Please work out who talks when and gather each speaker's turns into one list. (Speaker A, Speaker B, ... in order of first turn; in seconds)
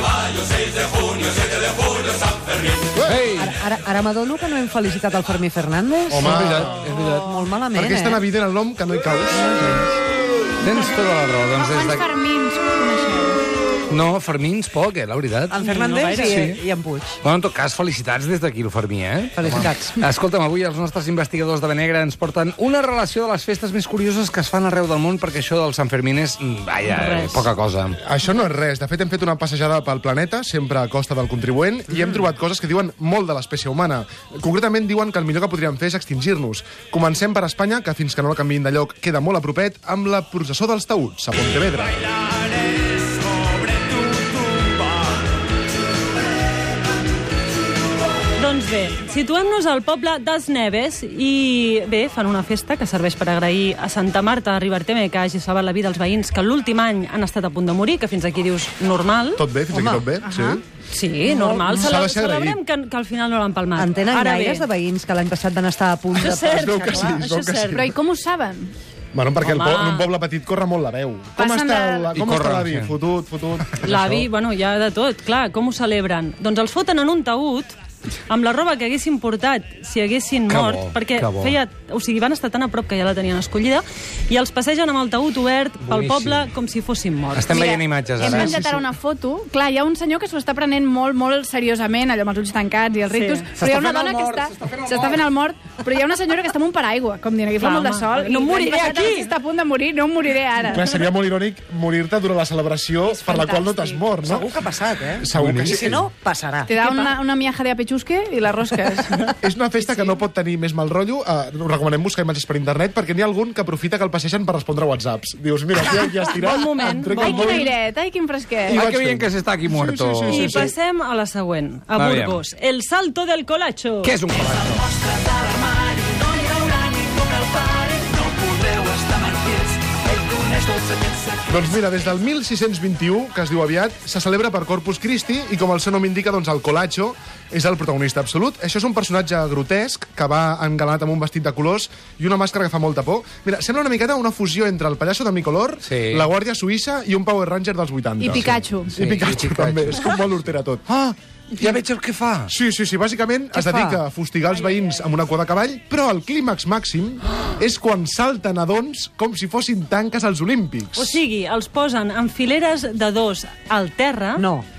Speaker A: 2.9-3.2, 6.1-6.8, 7.7-9.6, 28.0-42.0, 59.4-60.6, 61.7-62.6, 66.5-67.9, 69.1-74.2, 100.7-104.5, 105.2-106.0, 109.4-117.7, 118.7-120.7, 131.4-150.8, 152.5-161.2
Speaker B: 3.0-3.5, 6.2-7.4, 10.6-12.1, 13.9-16.6, 17.2-28.0, 72.1-72.9, 73.7-74.2, 80.5-81.5, 85.8-86.5, 87.3-88.8, 93.5-95.2, 105.3-105.9, 118.7-120.7, 122.0-122.4, 124.0-124.9, 145.8-146.3, 148.9-150.2, 150.9-152.5
Speaker C: 3.4-8.2, 15.5-17.2, 19.4-20.0, 59.7-60.1, 63.8-66.6, 104.2-107.2, 153.5-154.0, 164.4-164.7
Speaker D: 11.6-13.4, 60.2-60.6, 67.7-68.7, 71.4-72.2, 87.5-101.0, 103.2-104.2, 106.7-109.3, 116.9-118.8, 148.2-148.9
Speaker E: 15.7-16.4, 26.9-27.4, 48.4-59.4, 60.9-64.7, 66.2-67.9, 69.4-70.1, 73.8-77.8, 78.3-88.5, 93.1-93.5, 97.6-99.3, 116.2-117.7, 120.3-124.2, 160.9-164.4